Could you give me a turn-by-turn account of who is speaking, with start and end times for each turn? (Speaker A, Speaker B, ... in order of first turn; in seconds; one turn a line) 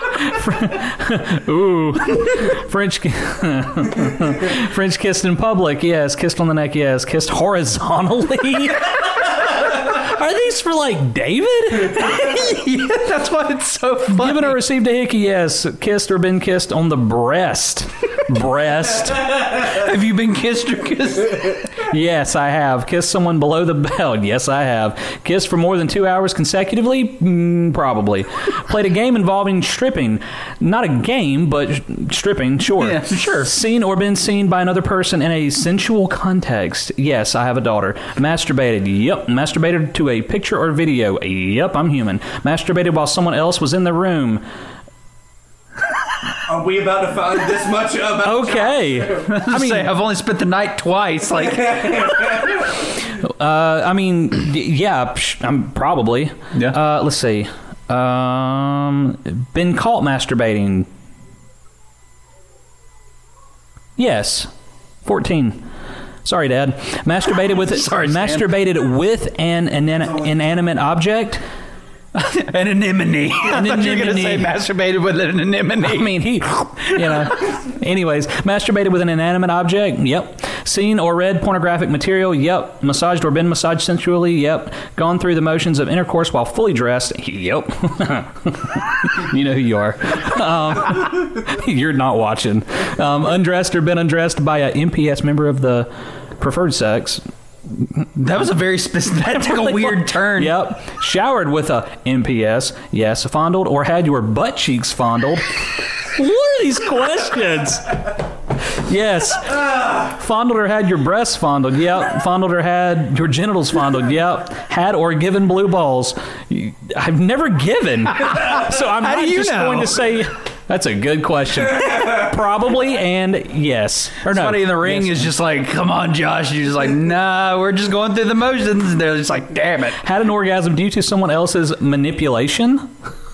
Speaker A: 0.2-12.3
Speaker B: 11.9-14.6
Speaker A: 14.1-19.5
Speaker B: 19.5-21.7
Speaker A: 21.9-44.4
Speaker B: 32.8-33.5
Speaker C: 46.5-49.3
Speaker A: 48.2-49.9
Speaker B: 49.3-52.4
Speaker C: 51.4-52.7
Speaker A: 53.1-60.9
Speaker A: 64.0-64.5
Speaker A: 65.0-65.6
Speaker A: 66.2-71.4
Speaker B: 67.4-68.5
Speaker C: 70.0-70.3
Speaker B: 72.1-76.2
Speaker A: 73.4-74.5
Speaker A: 75.8-97.2
Speaker B: 76.8-77.4
Speaker A: 97.7-98.1
Speaker B: 98.2-100.6
Speaker A: 99.3-108.1
Speaker A: 108.7-125.3
Speaker B: 118.2-120.2
Speaker B: 124.2-130.0
Speaker A: 130.0-132.9